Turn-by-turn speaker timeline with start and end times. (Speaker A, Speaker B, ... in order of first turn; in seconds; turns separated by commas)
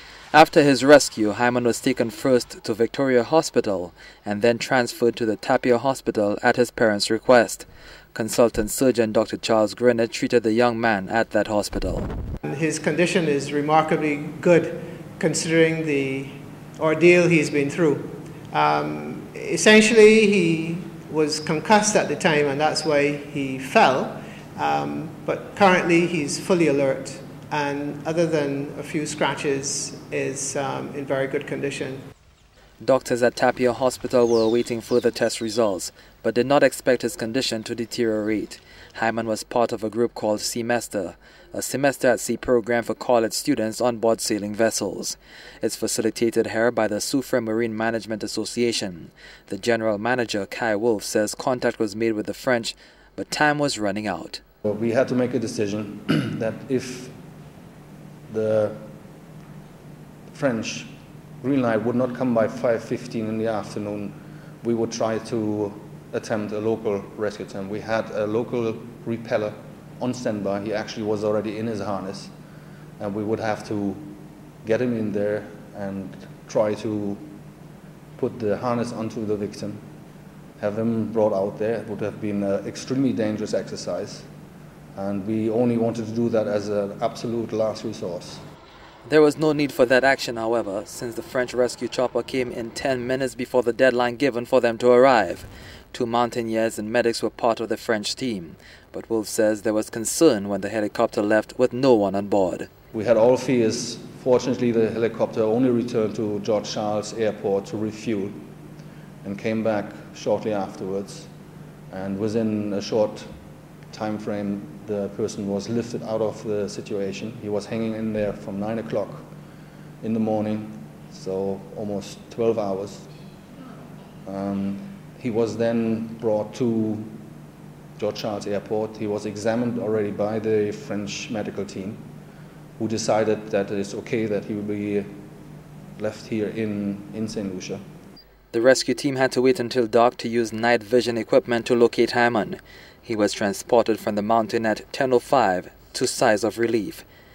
Speaker A: 0.3-12.1, Speaker B: 12.4-32.0, Speaker A: 32.8-54.4, Speaker C: 54.6-57.1, Speaker C: 58.3-58.8, Speaker C: 60.3-60.9, Speaker C: 61.4-72.3, Speaker C: 73.0-74.1, Speaker C: 74.6-77.2, Speaker C: 78.2-79.8, Speaker C: 80.6-84.3, Speaker C: 85.0-88.4, Speaker A: 89.0-102.7, Speaker C: 102.9-108.4, Speaker C: 109.2-111.3, Speaker C: 111.9-113.3, Speaker C: 113.9-119.3, Speaker C: 120.0-123.1, Speaker C: 124.2-127.1, Speaker C: 128.0-132.0, Speaker C: 132.8-135.1, Speaker C: 136.0-137.8, Speaker A: 138.5-147.0